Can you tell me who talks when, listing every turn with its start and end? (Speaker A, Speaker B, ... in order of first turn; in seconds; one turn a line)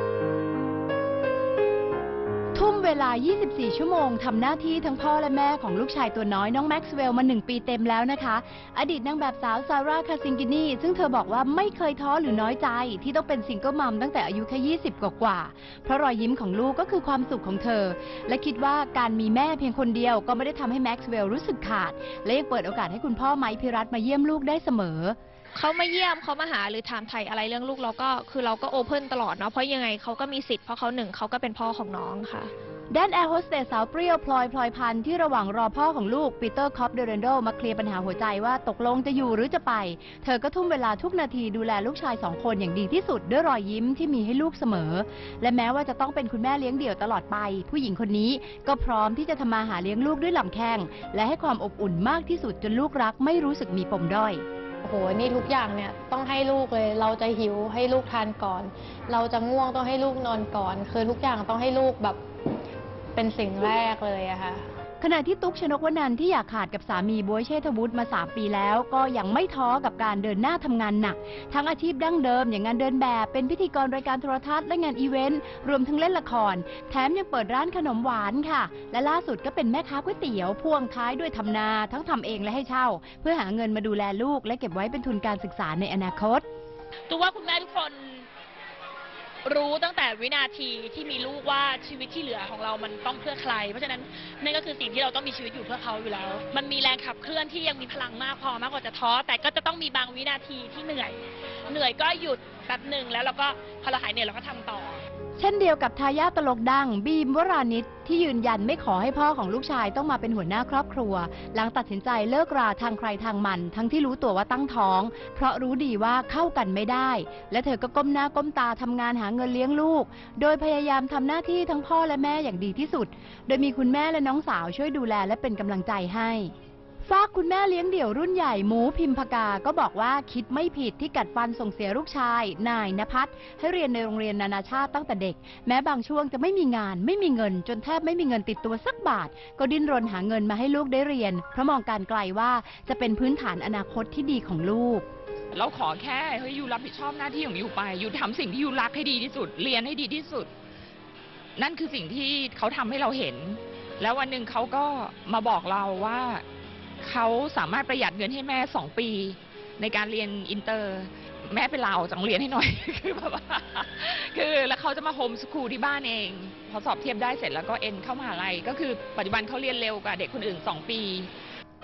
Speaker A: 2.5-25.2
Speaker B: 25.6-32.5
Speaker A: 32.9-54.4
Speaker C: 54.8-62.2
Speaker C: 63.1-64.6
Speaker A: 65.0-86.4
Speaker D: 87.1-88.3
Speaker D: 89.5-105.0
Speaker A: 105.4-126.5
Speaker A: 127.0-145.1
Speaker E: 145.5-150.5
Speaker E: 151.6-156.4
Speaker E: 157.0-171.3